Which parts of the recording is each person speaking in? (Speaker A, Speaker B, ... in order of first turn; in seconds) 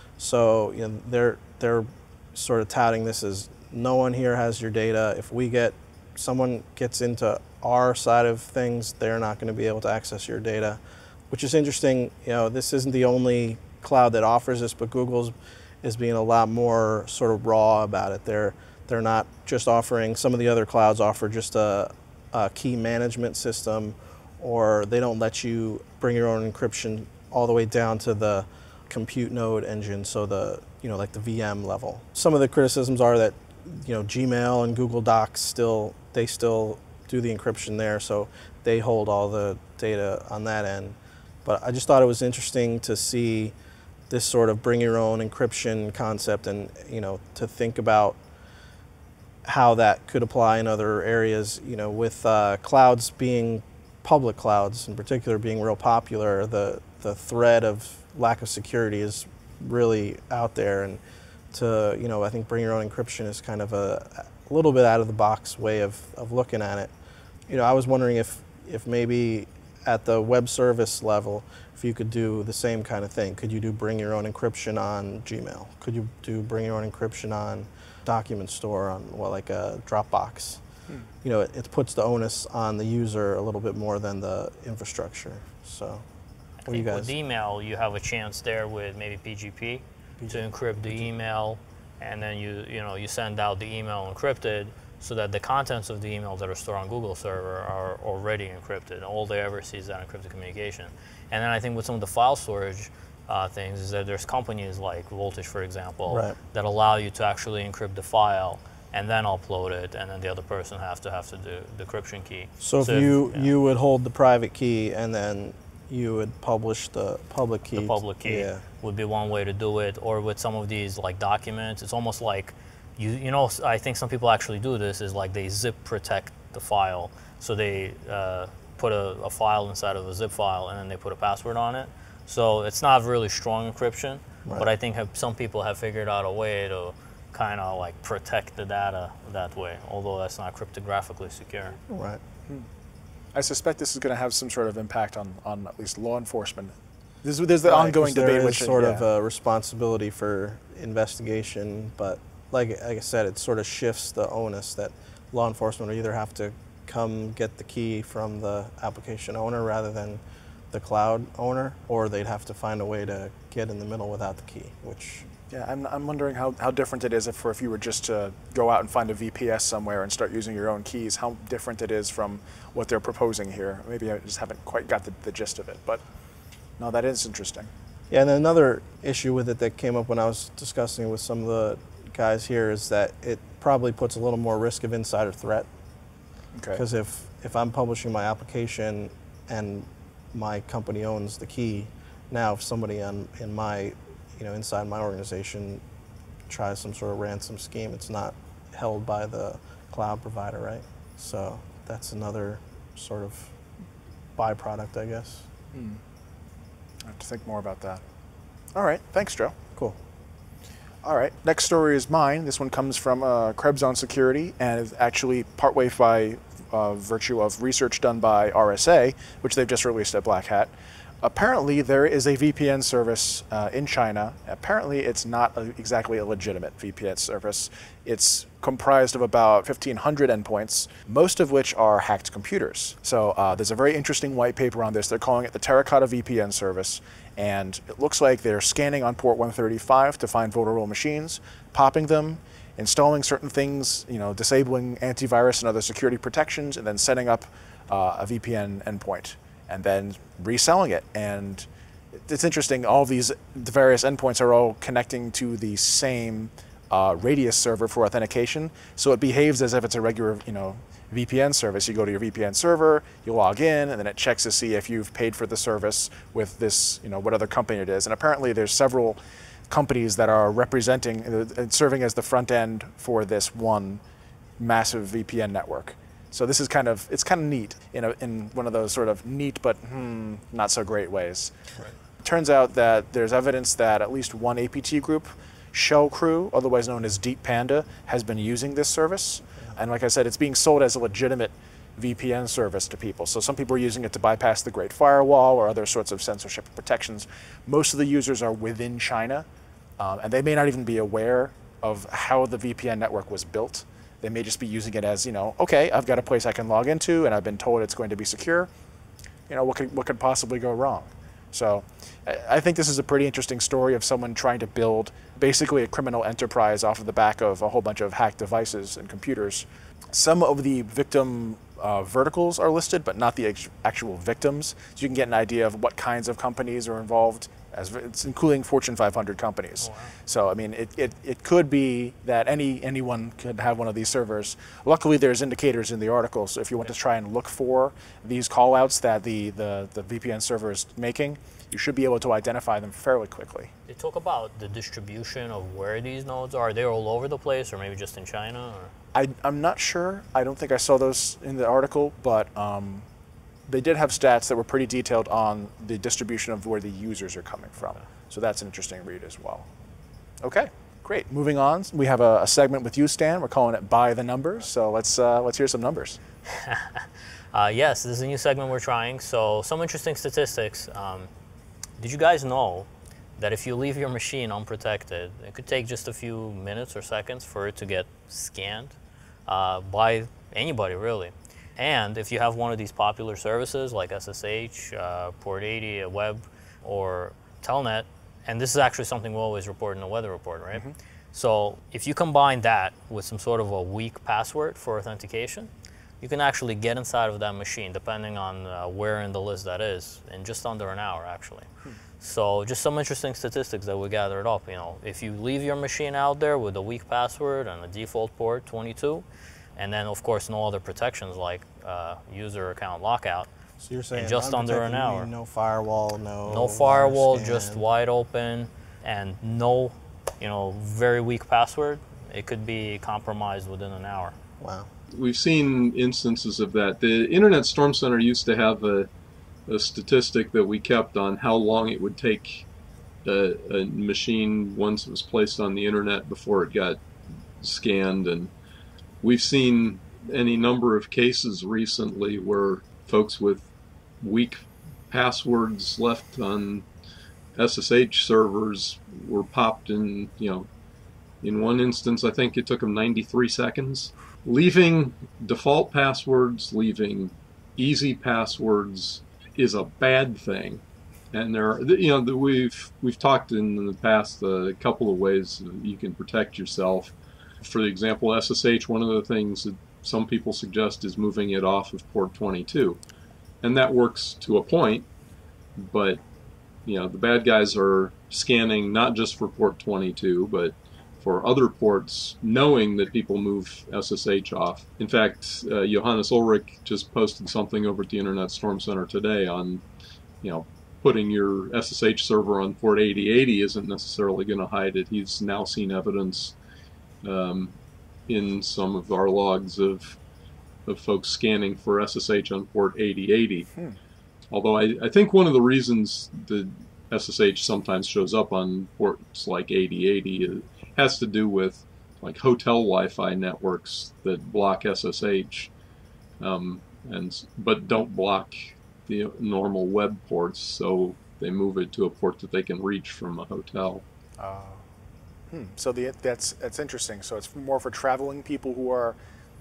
Speaker A: 0.2-43.5, 44.1-48.2, 49.5-61.0, 61.5-66.9, 67.5-80.6, 81.2-86.0, 86.7-87.1, 90.2-91.0, 106.1-106.4, 112.6-118.6, 141.9-142.2, 147.7-165.2, 178.1-185.7, 186.7-195.8, 196.5-203.6, 204.4-205.5, 413.8-417.8, 424.6-424.9
Speaker B: 86.7-113.5, 117.7-141.8, 329.8-330.1, 343.9-348.9, 366.5-371.3, 372.0-379.0, 379.5-395.7, 396.2-401.7, 402.2-409.2, 409.8-413.5, 414.1-415.3, 416.5-424.4
Speaker C: 143.3-149.1, 165.5-176.0, 176.8-177.7, 186.6-186.8, 205.7-206.0, 207.0-208.0, 208.7-209.6, 211.0-251.7, 252.2-269.2, 269.7-274.0, 274.6-299.5, 300.0-308.7, 309.5-343.7, 349.1-353.1, 353.7-359.7, 360.4-366.2, 524.4-524.8, 525.5-529.2
Speaker D: 425.1-429.1, 429.7-432.6, 433.2-437.0, 437.6-438.5, 439.2-443.7, 444.2-444.6, 445.1-446.9, 447.6-450.7, 451.4-473.0, 473.6-475.1, 475.8-476.2, 476.9-489.8, 490.4-496.5, 497.2-497.7, 498.3-500.2, 500.9-503.7, 504.5-515.7, 516.4-524.0